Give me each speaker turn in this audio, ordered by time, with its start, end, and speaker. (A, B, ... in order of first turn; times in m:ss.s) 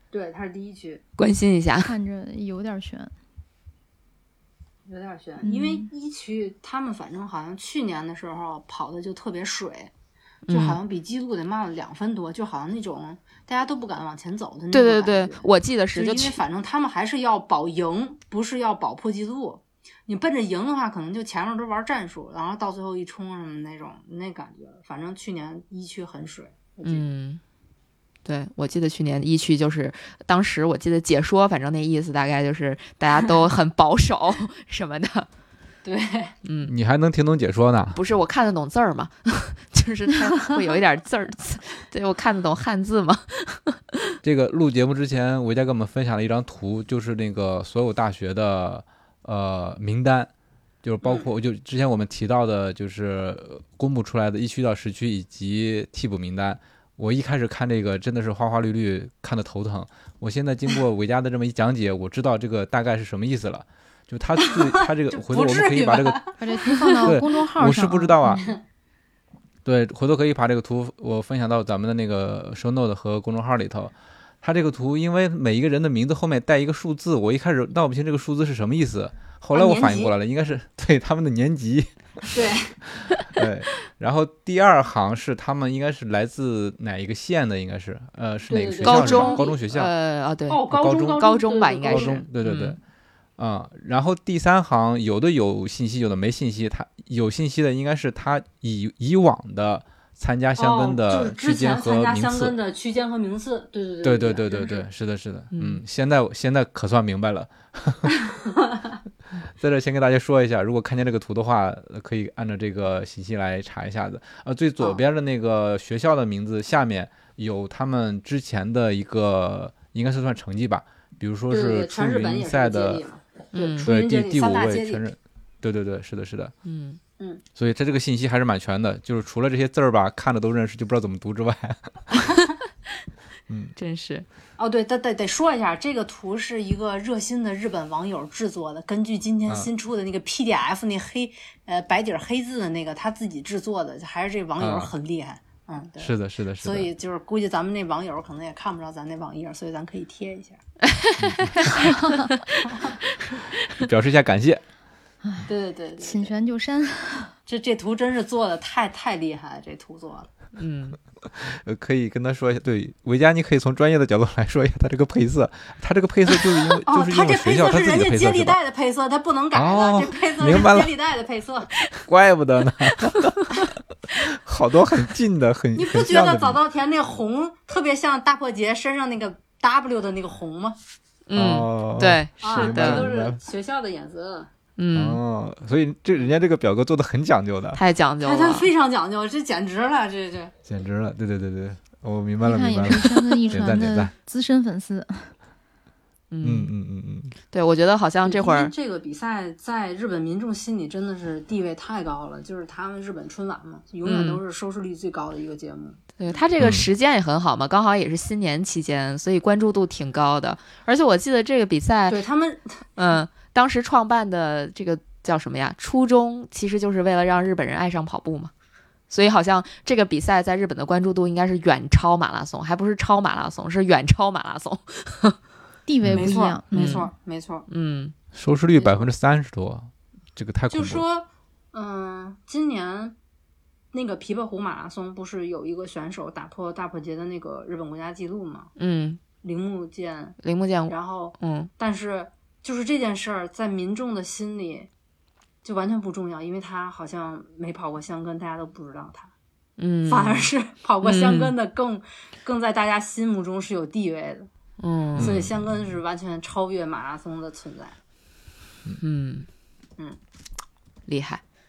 0:00.1-0:01.0 A
0:01.2-0:01.9 B
0:01.8-0:03.1 C
0:04.8-0:09.9 A
0:05.4-0:05.9 C
0:10.5-0:10.8 B
0:10.5-0:27.0 A
0:14.7-0:16.4 B
0:26.8-0:27.4 B
0:28.2-0:35.3 B
0:35.8-0:36.3 A
0:36.4-0:36.7 B
0:36.6-0:38.0 D
0:37.9-0:44.1 B
0:44.2-0:50.3 D
0:50.8-1:06.2 D
0:51.0-0:51.3 A
1:04.4-1:07.2 A
1:06.4-1:08.5 C
1:07.0-1:08.5 D
1:09.6-1:29.9 D
1:19.5-1:20.1 A
1:22.3-1:22.7 A
1:28.5-1:29.6 A
1:28.8-1:32.8 B
1:30.5-1:32.2 A
1:30.7-1:31.2 D
1:31.8-1:32.8 D
1:33.4-1:42.6 D
1:40.6-1:44.8 A
1:44.0-1:48.2 D
1:45.5-1:45.8 B
1:49.6-2:03.0 D
2:01.5-2:05.0 A
2:03.5-2:03.9 B
2:03.8-2:06.5 D
2:06.6-2:07.0 B
2:07.6-2:12.0 D
2:12.2-2:12.5 B
2:13.5-2:13.7 D
2:13.8-2:14.2 B
2:14.6-2:30.6 A
2:24.6-2:24.9 D
2:26.0-2:26.9 D
2:30.8-2:32.6 B
2:31.2-2:31.6 D
2:31.8-2:32.2 C
2:32.7-2:32.9 A
2:33.3-2:33.8 B
2:33.7-2:34.6 D
2:35.2-2:35.5 C
2:35.5-2:36.3 A
2:36.0-2:37.3 C
2:37.4-2:40.3 A
2:40.6-2:41.0 B
2:41.2-2:48.6 D
2:46.9-2:51.7 A
2:49.5-2:50.9 D
2:52.0-2:56.6 D
2:52.8-2:53.5 B
2:55.7-3:00.8 A
3:01.3-3:03.1 B
3:01.3-3:03.4 D
3:02.4-3:04.5 A
3:04.8-3:05.2 B
3:04.9-3:07.8 D
3:07.7-3:08.7 B
3:08.2-3:10.5 A
3:10.6-3:14.1 D
3:12.4-3:15.3 C
3:16.3-3:16.7 B
3:16.4-3:17.3 D
3:17.5-3:18.7 B
3:18.2-3:26.4 A
3:24.0-3:24.4 B
3:26.2-3:32.2 B
3:26.6-3:26.9 D
3:32.1-3:32.8 A
3:33.0-3:38.5 B
3:39.1-3:45.4 B
3:45.9-3:47.1 C
3:46.0-3:46.3 D
3:46.1-3:47.6 A
3:46.7-3:47.1 B
3:47.7-3:48.1 B
3:48.3-3:51.0 D
3:48.8-3:49.1 A
3:50.7-3:53.2 A
3:53.9-3:58.7 A
3:58.8-3:59.2 B
3:59.4-4:00.4 A
4:00.4-4:01.7 B
4:00.9-4:04.9 A
4:05.6-4:09.3 A
4:09.8-4:10.5 B
4:10.0-4:14.5 A
4:11.0-4:11.5 B
4:14.8-4:15.4 B
4:15.2-4:15.6 D
4:15.2-4:18.0 A
4:19.0-4:19.5 B
4:21.1-4:21.4 B